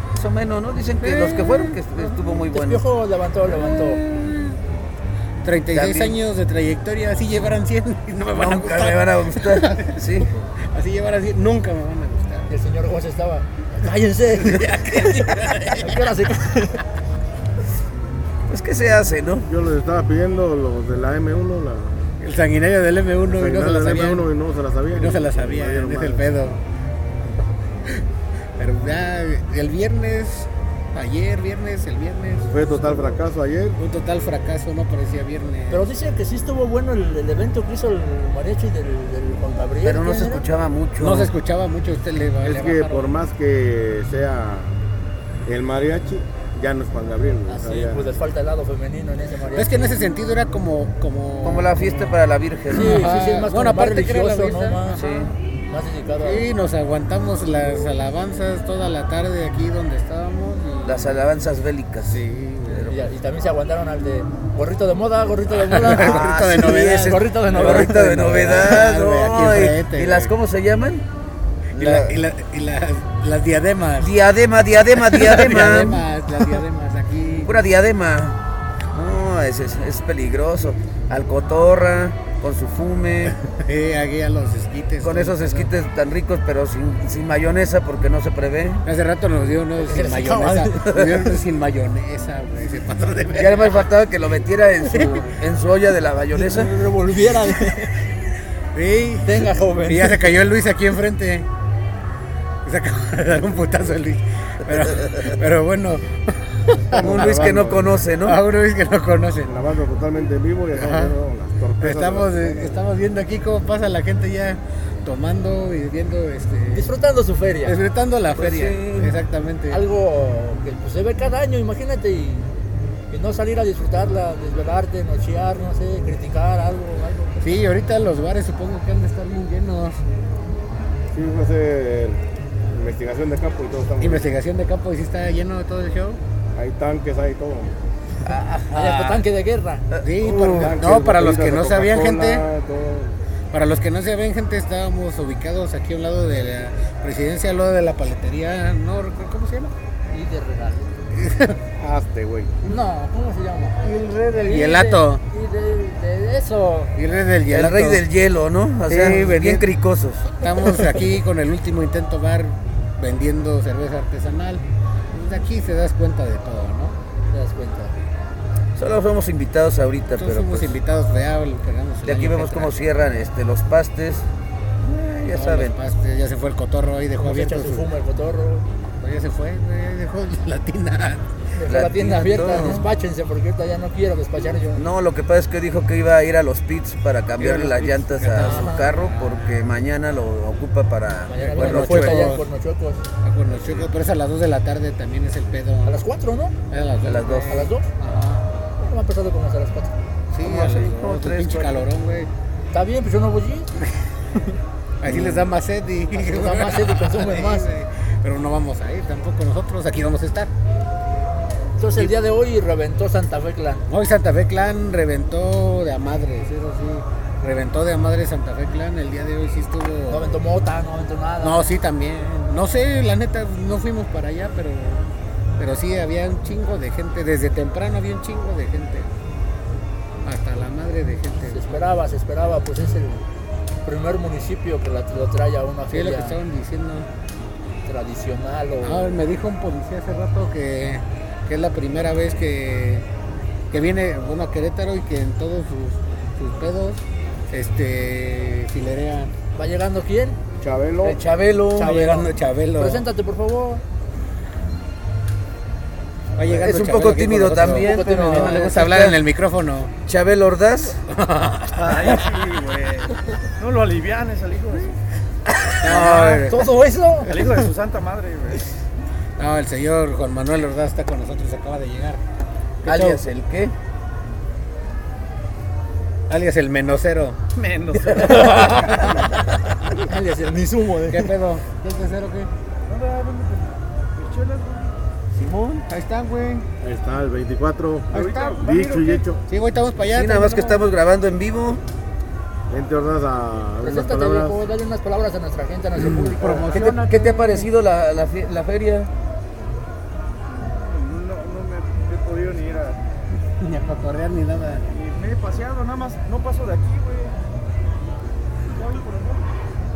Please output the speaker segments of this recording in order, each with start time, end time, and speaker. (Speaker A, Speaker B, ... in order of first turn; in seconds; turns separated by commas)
Speaker A: 0.1-2.8, Speaker B: 1.0-1.8, Speaker C: 2.3-4.0, Speaker B: 3.5-4.6, Speaker B: 5.4-12.5, Speaker A: 5.7-6.2, Speaker A: 8.3-10.3, Speaker C: 12.5-16.8, Speaker B: 14.3-16.2, Speaker A: 18.5-19.5, Speaker D: 19.5-22.1, Speaker B: 22.2-24.3, Speaker D: 23.3-26.2, Speaker B: 24.9-26.6, Speaker B: 28.6-33.2, Speaker D: 32.5-33.8, Speaker B: 33.8-35.9, Speaker C: 35.7-40.4, Speaker A: 39.8-41.3, Speaker B: 41.0-43.1, Speaker D: 42.4-44.8, Speaker D: 45.5-48.1, Speaker C: 47.5-50.0, Speaker B: 49.5-52.2, Speaker A: 51.4-53.1, Speaker C: 52.7-55.0, Speaker B: 52.7-55.3, Speaker A: 55.0-55.3, Speaker C: 55.7-56.5, Speaker B: 56.2-61.2, Speaker A: 60.9-63.1, Speaker B: 62.1-62.9, Speaker C: 62.9-68.3, Speaker B: 65.6-70.3, Speaker A: 65.8-66.9, Speaker A: 67.5-71.0, Speaker A: 71.7-72.2, Speaker B: 71.8-74.2, Speaker A: 74.0-76.0, Speaker B: 74.8-77.5, Speaker A: 77.5-78.4, Speaker A: 78.9-83.4, Speaker B: 83.3-85.7, Speaker A: 85.0-88.8, Speaker B: 88.8-93.9, Speaker C: 89.8-91.1, Speaker A: 90.9-91.3, Speaker A: 93.4-96.7, Speaker B: 94.9-95.3, Speaker C: 96.3-98.0, Speaker B: 98.7-101.5, Speaker C: 99.2-100.3, Speaker B: 102.6-107.5, Speaker D: 106.8-108.0, Speaker A: 107.0-108.4, Speaker B: 108.2-109.5, Speaker D: 109.5-112.7, Speaker B: 110.7-111.2, Speaker B: 111.8-116.9, Speaker C: 116.7-117.8, Speaker B: 117.7-119.8, Speaker A: 118.4-119.1, Speaker C: 119.7-122.5, Speaker C: 123.1-127.5, Speaker B: 127.4-130.0, Speaker D: 131.1-134.2, Speaker B: 134.0-136.2, Speaker D: 136.6-137.7, Speaker A: 138.2-139.2, Speaker C: 138.7-139.8, Speaker A: 139.9-140.8, Speaker B: 140.0-142.5, Speaker D: 140.2-143.1, Speaker B: 143.5-149.7, Speaker C: 150.1-150.9, Speaker B: 151.1-151.6, Speaker D: 151.8-152.6, Speaker C: 152.7-156.9, Speaker B: 153.8-155.2, Speaker B: 156.9-158.0, Speaker A: 157.5-160.4, Speaker B: 158.9-159.7, Speaker B: 160.3-167.0, Speaker C: 167.3-167.9, Speaker A: 168.8-170.7, Speaker B: 170.2-172.7, Speaker A: 172.1-174.3, Speaker A: 174.8-175.7, Speaker B: 175.3-177.9, Speaker C: 177.2-178.6, Speaker B: 179.0-181.3, Speaker C: 181.6-184.8, Speaker A: 181.7-182.9, Speaker B: 182.5-182.8, Speaker A: 184.8-192.3, Speaker B: 187.4-189.4, Speaker C: 188.4-188.8, Speaker C: 191.3-193.0, Speaker B: 191.4-192.4, Speaker B: 193.2-196.0, Speaker A: 193.5-193.9, Speaker C: 195.8-196.5, Speaker B: 196.7-198.6, Speaker A: 197.1-197.7, Speaker C: 197.5-197.9, Speaker C: 198.8-199.9, Speaker B: 200.3-202.3, Speaker A: 200.4-201.8, Speaker C: 202.7-203.7, Speaker B: 205.0-210.5, Speaker A: 205.1-205.5, Speaker C: 206.1-207.7, Speaker C: 211.8-213.9, Speaker B: 213.9-220.4, Speaker C: 220.1-221.6, Speaker B: 221.4-229.1, Speaker B: 230.2-231.9, Speaker C: 231.5-233.3, Speaker C: 233.8-236.4, Speaker B: 235.9-237.1, Speaker C: 237.9-239.1, Speaker B: 238.8-243.1, Speaker B: 243.7-249.3, Speaker C: 249.6-250.4, Speaker D: 250.6-251.2, Speaker A: 251.0-252.1, Speaker C: 251.7-253.8, Speaker B: 251.8-253.1, Speaker B: 256.4-259.9, Speaker E: 256.4-256.6, Speaker A: 256.6-259.2, Speaker C: 257.7-258.7, Speaker A: 260.1-261.0, Speaker B: 261.1-262.1, Speaker E: 261.7-265.0, Speaker A: 265.5-266.6, Speaker B: 265.8-266.6, Speaker C: 265.9-267.3, Speaker E: 267.2-268.7, Speaker B: 269.4-272.2, Speaker B: 272.8-273.2, Speaker A: 272.9-273.7, Speaker B: 276.3-277.4, Speaker E: 277.6-279.0, Speaker A: 278.1-279.3, Speaker B: 278.3-279.2, Speaker C: 280.0-281.3, Speaker B: 281.1-282.5, Speaker E: 282.9-285.0, Speaker A: 285.4-285.9, Speaker B: 285.9-286.7, Speaker D: 286.8-289.4, Speaker E: 288.1-289.2, Speaker B: 289.5-290.8, Speaker A: 290.1-291.8, Speaker D: 292.7-294.6, Speaker C: 293.8-296.9, Speaker B: 296.0-297.7, Speaker A: 296.6-299.1, Speaker E: 296.7-297.0, Speaker E: 300.5-303.0, Speaker B: 303.6-304.8, Speaker E: 304.9-307.4, Speaker E: 308.7-309.4